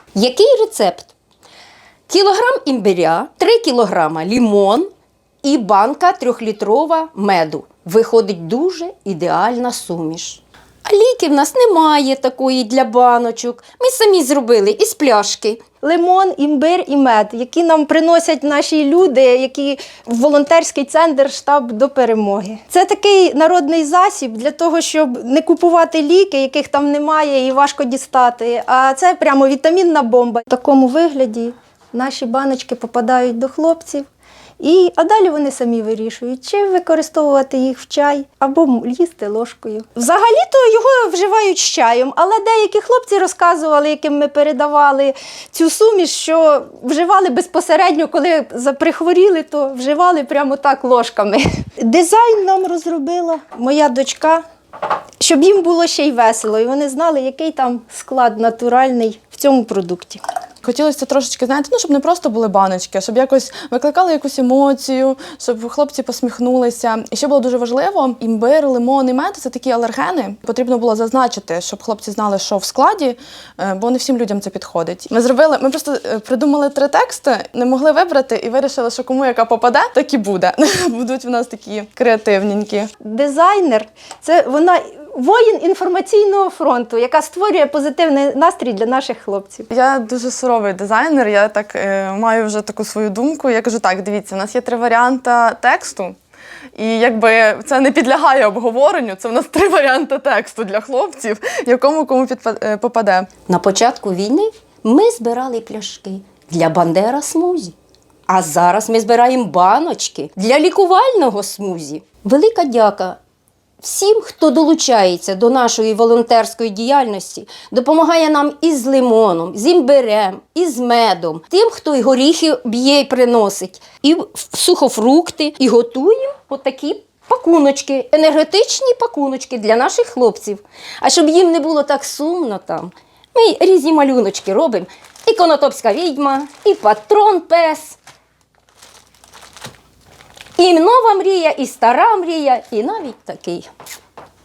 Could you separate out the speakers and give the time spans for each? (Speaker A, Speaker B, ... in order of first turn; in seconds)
Speaker A: 0.1-1.1, 2.1-4.9, 5.4-15.6, 103.5-107.7, 108.3-113.2, 113.8-138.0, 140.6-143.7
Speaker B: 15.8-34.1, 34.6-54.4, 55.2-60.2, 83.0-89.7
Speaker C: 60.6-82.9, 89.7-96.2, 96.8-103.3